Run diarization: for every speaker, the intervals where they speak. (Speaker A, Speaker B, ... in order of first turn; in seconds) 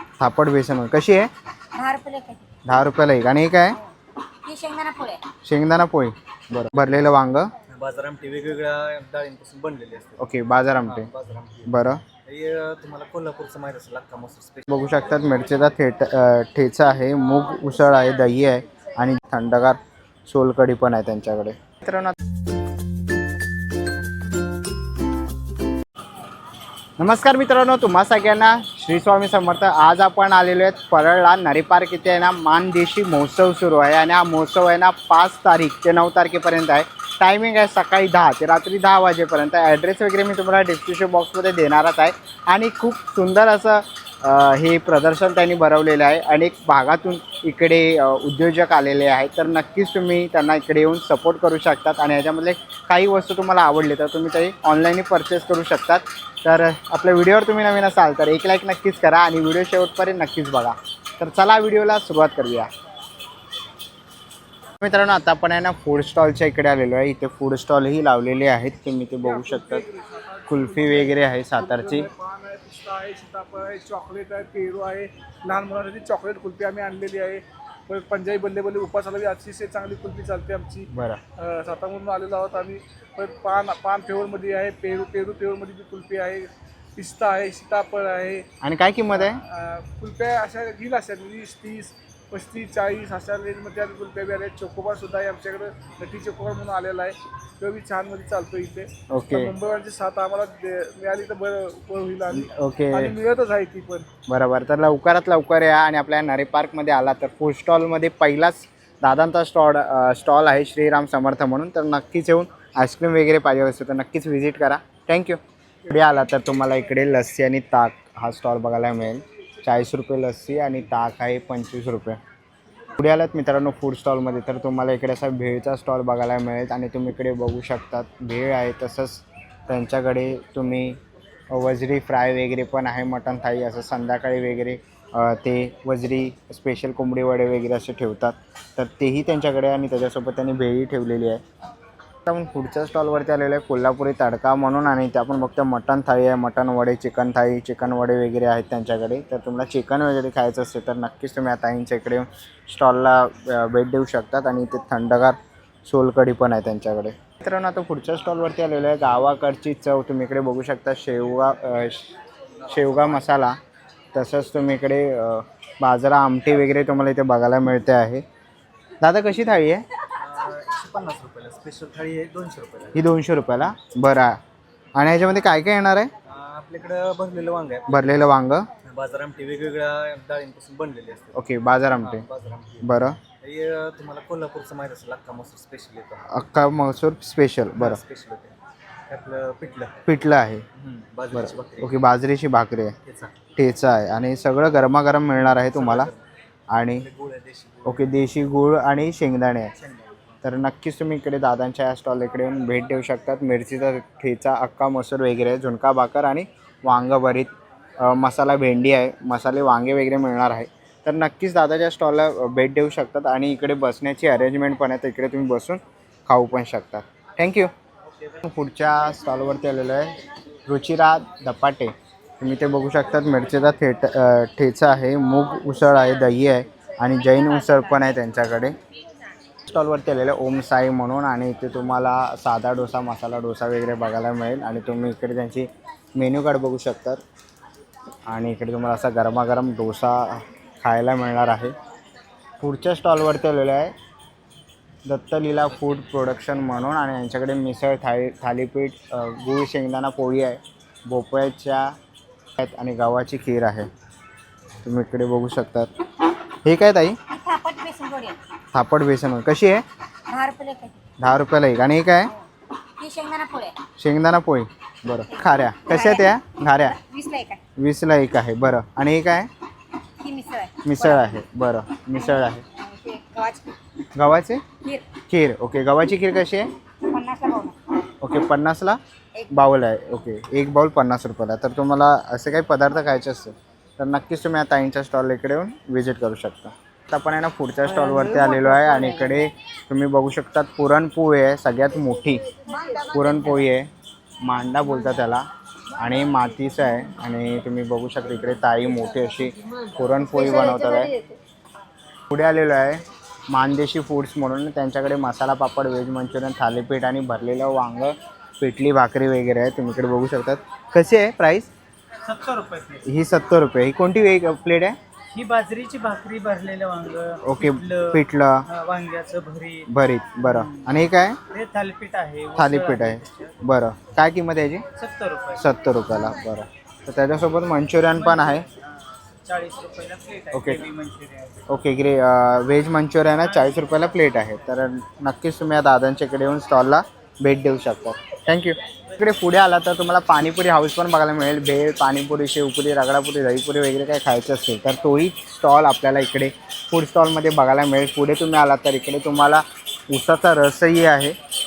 Speaker A: 0.2-1.3, 2.6-3.8, 5.4-7.5, 10.2-11.1, 11.6-12.0, 14.7-22.1, 27.0-62.7, 64.8-69.8, 70.5-72.1, 80.9-81.2, 88.6-89.4, 99.1-99.5, 102.3-103.1, 104.3-122.2, 123.0-131.0, 131.5-141.4, 142.2-162.1, 162.7-163.6, 164.1-168.2, 169.0-169.8, 172.9-174.4, 174.9-176.1, 177.9-178.7, 181.3-182.2, 182.8-183.2, 186.3-188.0, 190.1-190.6, 191.3-192.9, 193.6-196.1, 196.7-197.1, 197.8-199.7, 200.4-217.7, 218.4-228.7, 229.7-237.2, 238.3-241.7, 242.6-243.9, 245.0-251.9, 252.6-253.9, 254.8-255.9, 256.6-257.2, 258.7-259.8, 261.2-262.3, 264.0-266.9, 267.8-269.5, 270.8-272.6, 274.1-274.6, 275.3-276.7, 278.2-279.0, 279.5-292.4, 293.0-293.9, 294.4-295.4, 296.0-301.2, 302.3-311.7, 313.0-315.0, 317.4-318.6, 319.9-321.4, 322.6-324.8, 325.6-328.6, 330.5-330.9, 331.7-351.3
Speaker B: 1.7-2.5, 4.5-5.2, 257.3-258.4, 260.3-261.0, 263.0-263.8, 265.3-266.3, 266.8-267.6, 270.2-271.4, 272.2-273.8, 274.8-275.1, 277.1-277.7, 279.4-279.7
Speaker C: 7.7-14.8, 162.6-163.3, 170.2-173.1, 176.3-177.9, 178.8-181.4, 181.9-186.3, 187.8-188.6, 189.1-190.0, 190.8-192.0, 193.1-193.3, 195.7-196.2, 196.8-198.2, 199.7-200.3
Speaker D: 69.2-88.5, 89.1-104.1
Speaker E: 312.2-313.1, 315.3-319.9, 320.4-320.9, 321.5-323.6, 324.9-325.6, 328.1-331.6, 333.4-333.9